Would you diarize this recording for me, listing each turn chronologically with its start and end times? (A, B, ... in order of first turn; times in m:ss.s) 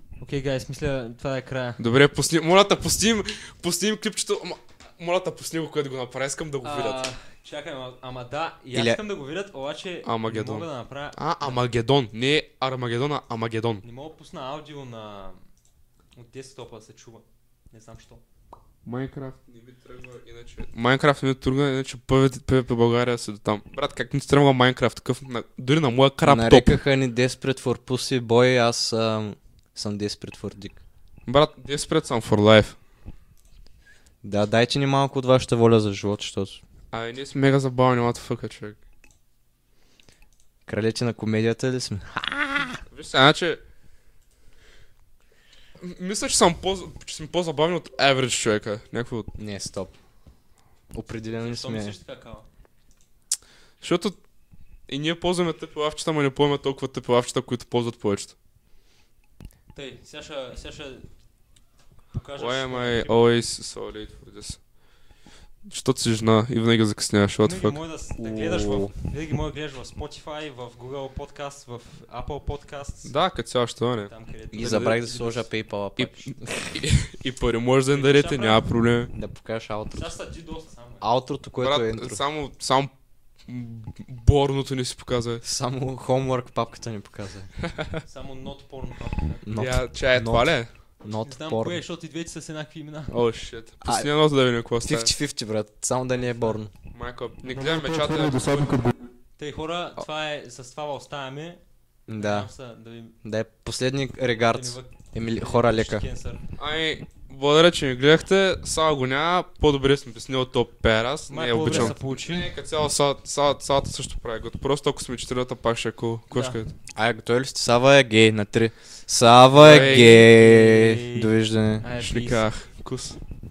0:00.2-0:01.8 A
0:01.8-0:07.0 B
0:06.6-0:11.6 A
0:08.7-0:09.0 C
0:10.0-0:13.8 B
0:13.8-0:15.4 A
0:16.2-0:18.2 A
0:18.8-0:26.8 B
0:26.2-0:30.8 C
0:31.2-0:32.8 B
0:34.2-0:36.6 C
0:36.9-0:38.8 B
0:40.7-0:42.8 C
0:42.9-0:43.6 B
0:45.8-0:49.3 B
0:49.4-0:49.9 C
0:50.9-0:51.9 C
0:51.4-0:52.4 A
0:53.8-0:54.2 B
0:54.9-0:58.3 B
0:59.7-1:01.1 A
1:02.1-1:03.2 A
1:02.4-1:04.6 B
1:05.6-1:07.8 B
1:07.4-1:13.1 A
1:08.2-1:08.9 C
1:13.0-1:15.0 B
1:14.1-1:15.4 A
1:14.5-1:16.3 C
1:16.0-1:19.1 B
1:17.9-1:18.6 A
1:19.1-1:20.1 C
1:19.9-1:21.0 A
1:21.0-1:22.2 C
1:21.6-1:22.9 B
1:23.4-1:25.4 B
1:25.4-1:27.5 C
1:27.6-1:28.0 B
1:28.0-1:29.4 A
1:29.4-1:31.8 C
1:29.6-1:30.7 B
1:31.2-1:33.1 A
1:33.1-1:35.1 B
1:33.8-1:34.1 C
1:34.8-1:36.7 C
1:36.1-1:36.6 A
1:36.9-1:38.9 B
1:39.4-1:41.6 A
1:42.1-1:42.5 C
1:42.1-1:43.2 A
1:43.2-1:46.0 C
1:44.5-1:46.4 A
1:46.6-1:56.7 B
1:51.3-1:52.5 A
1:51.6-1:51.9 C
1:56.3-1:56.6 A
1:57.0-2:01.9 C
1:59.6-2:00.2 B
1:59.6-2:02.4 A
2:02.0-2:03.2 B